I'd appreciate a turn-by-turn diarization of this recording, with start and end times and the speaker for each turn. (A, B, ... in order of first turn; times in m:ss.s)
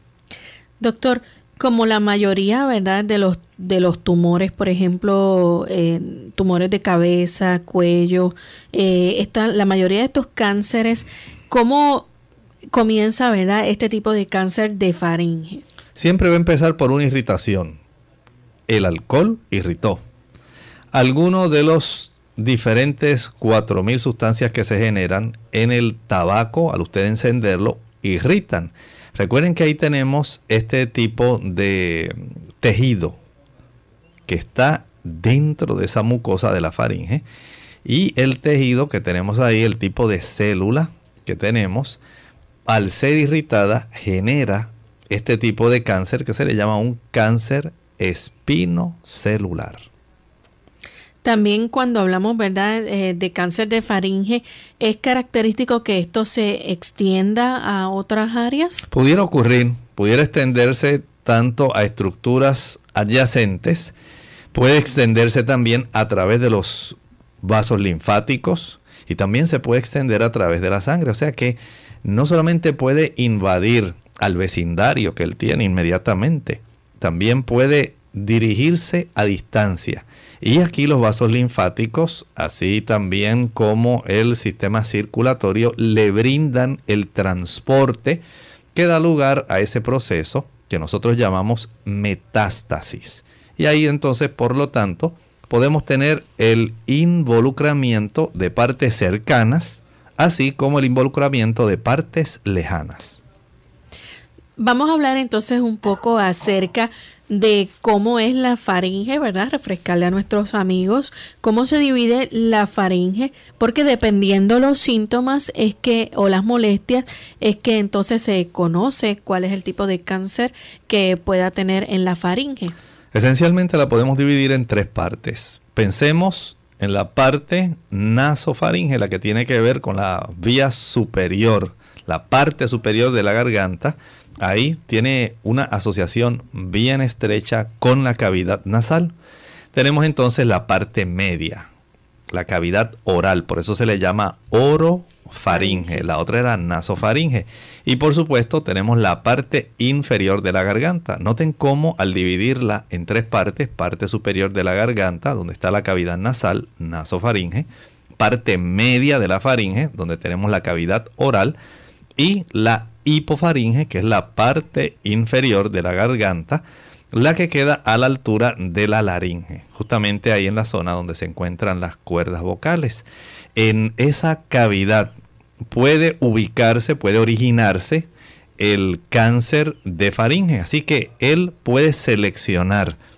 0:00.8-0:12.1 A
0:12.7-0:15.6 A
0:16.0-0:17.8 B
0:18.7-0:20.0 B
0:20.9-0:33.2 B
0:34.3-0:37.2 B
0:37.8-0:42.0 B
0:42.7-0:49.9 B
0:51.2-0:58.9 A
0:58.9-1:03.9 B
1:04.5-1:28.2 B
1:28.7-1:43.2 B
1:44.6-2:02.7 A
2:03.1-2:19.1 B
2:19.7-2:21.7 B
2:22.3-2:37.7 B
2:25.5-2:26.0 A
2:38.2-2:41.6 B
2:42.2-2:53.0 B
2:53.6-2:55.1 B
2:55.7-3:03.0 B